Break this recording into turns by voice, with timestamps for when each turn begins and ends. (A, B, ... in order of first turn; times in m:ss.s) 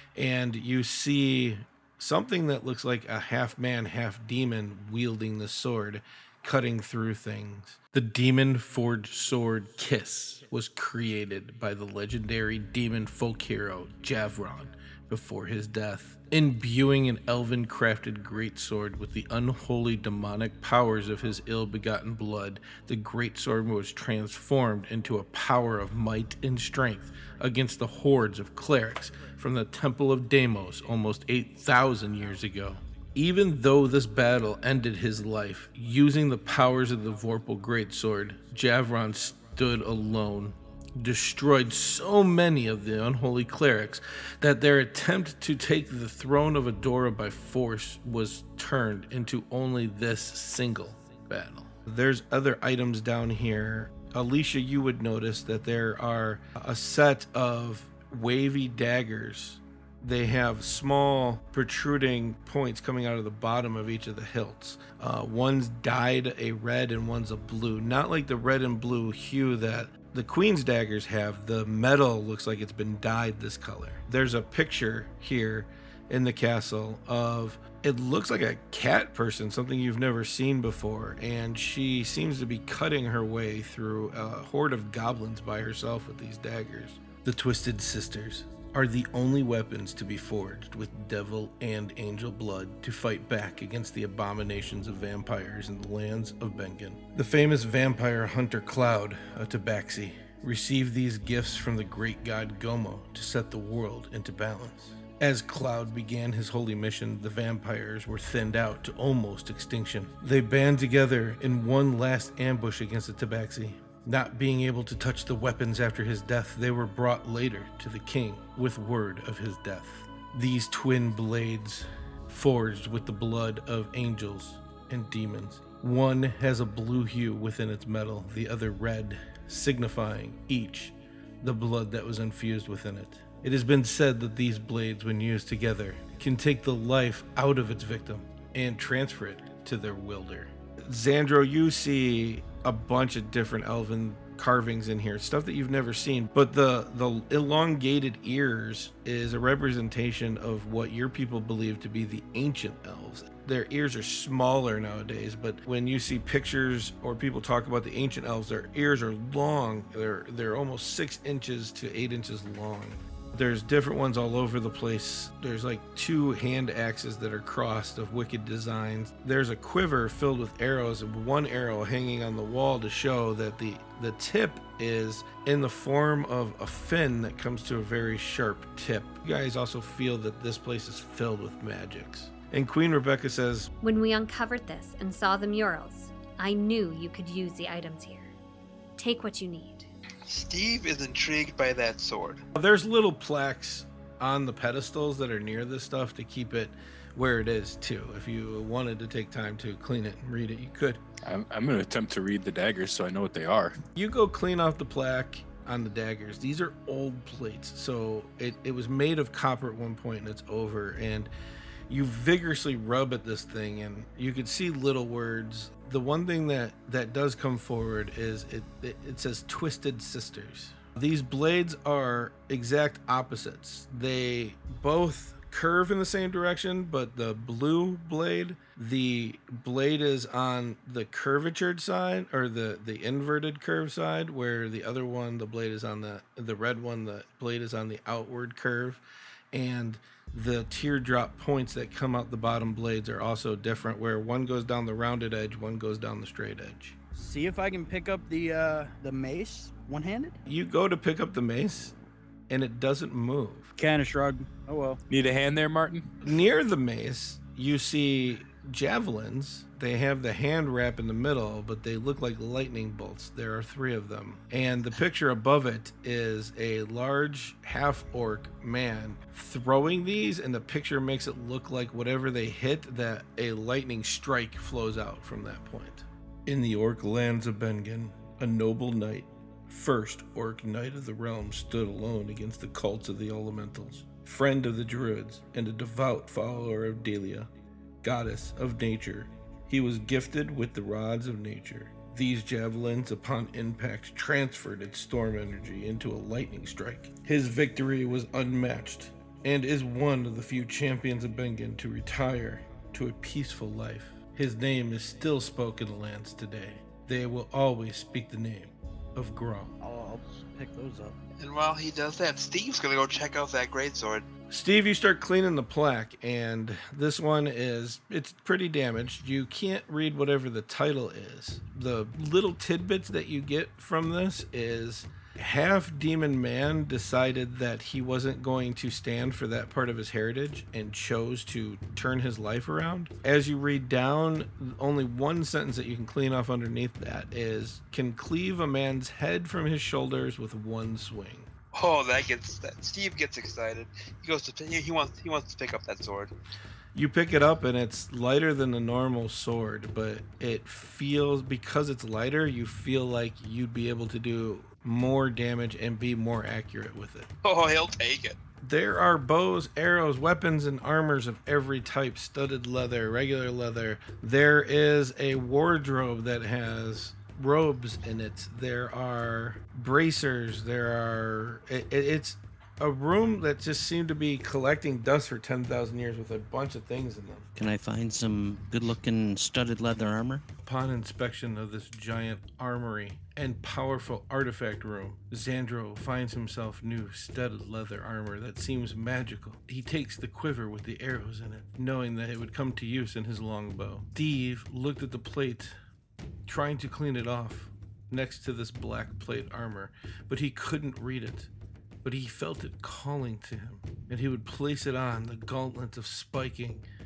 0:00.2-3:03.7 A
3:03.8-3:08.3 B
3:09.0-3:09.9 B
3:10.3-3:12.4 C
3:12.5-3:21.0 A
3:21.2-3:23.8 D
3:24.0-3:31.3 A
3:31.9-4:07.0 A
4:07.2-4:10.4 E
4:10.5-4:12.0 A
4:12.5-4:13.7 A
4:13.8-4:15.0 E
4:15.1-4:16.2 D
4:16.2-4:47.5 A
4:48.0-5:09.7 A
5:09.8-5:11.2 E
5:11.4-5:14.3 C
5:14.5-5:41.5 A
5:41.7-5:46.3 C
5:47.0-5:57.3 A
5:57.4-5:58.4 C
5:58.6-6:17.5 A
6:17.6-6:20.4 F
6:20.6-6:35.8 A
6:36.5-6:41.5 A
6:42.0-6:46.9 A